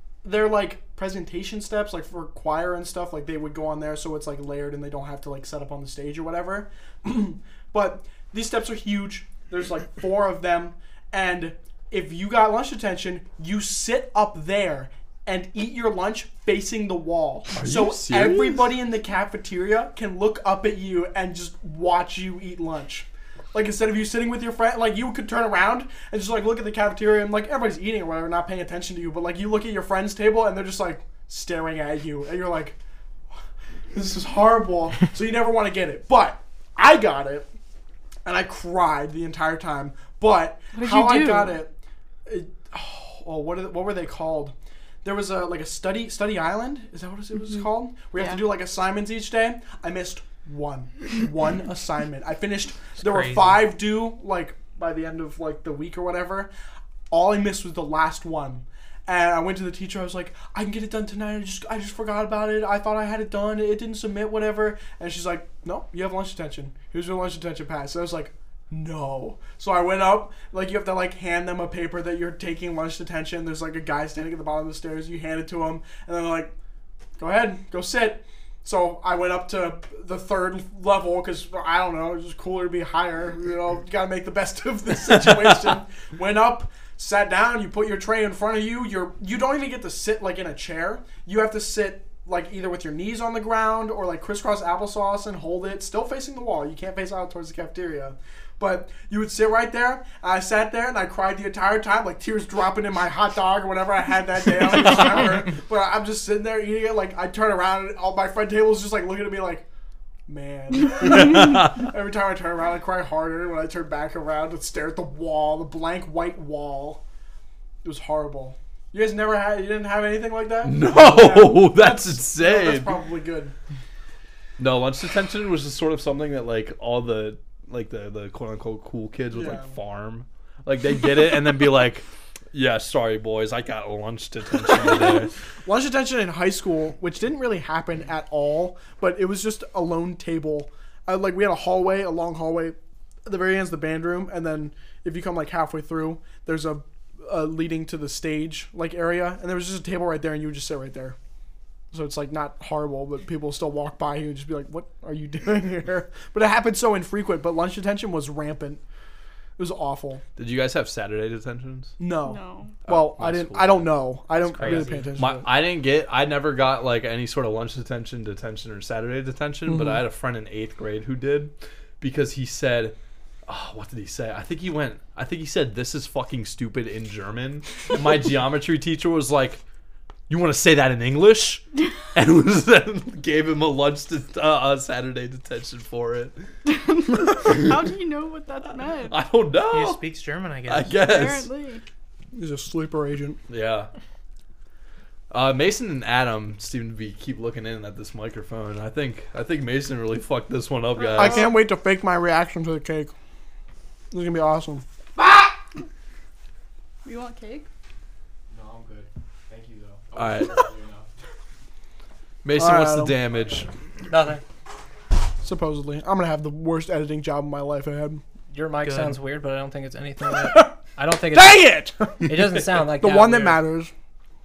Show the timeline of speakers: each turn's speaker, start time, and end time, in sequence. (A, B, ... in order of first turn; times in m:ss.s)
0:00.2-0:32.8 A
0:17.5-0:18.7 B
0:33.9-0:37.5 A
0:38.2-0:41.7 A
0:40.7-0:41.6 C
0:42.3-0:56.5 A
0:53.0-0:53.7 D
0:57.1-1:16.5 A
1:17.2-1:49.7 A
1:50.3-1:57.0 A
1:50.9-1:51.9 B
1:57.8-2:03.5 A
2:00.6-2:02.9 B
2:04.6-2:15.3 B
2:09.3-2:09.7 A
2:15.6-2:31.2 A
2:31.9-2:38.8 A
2:39.6-2:40.2 A
2:40.4-2:42.0 B
2:42.0-2:45.5 A
2:42.2-2:42.8 C
2:42.8-2:44.0 B
2:44.5-2:45.1 D
2:44.6-2:59.6 B
2:49.7-2:50.0 A
3:00.3-3:06.4 B
3:06.7-3:09.2 C
3:09.1-3:10.0 B
3:09.7-3:10.9 D
3:10.7-3:11.5 B
3:10.9-3:11.8 C
3:12.4-3:13.4 A
3:13.5-3:13.9 B
3:15.3-3:21.5 B
3:21.1-3:23.1 A
3:24.1-3:24.8 A
3:25.2-3:25.5 C
3:27.0-3:27.7 C
3:28.5-3:31.1 E
3:30.2-3:30.7 B
3:32.4-3:33.7 B
3:32.5-3:33.2 A
3:33.3-3:33.7 E
3:34.1-3:34.4 F
3:35.4-3:38.2 A
3:38.5-3:43.6 F
3:38.8-3:39.2 D
3:41.3-3:43.9 A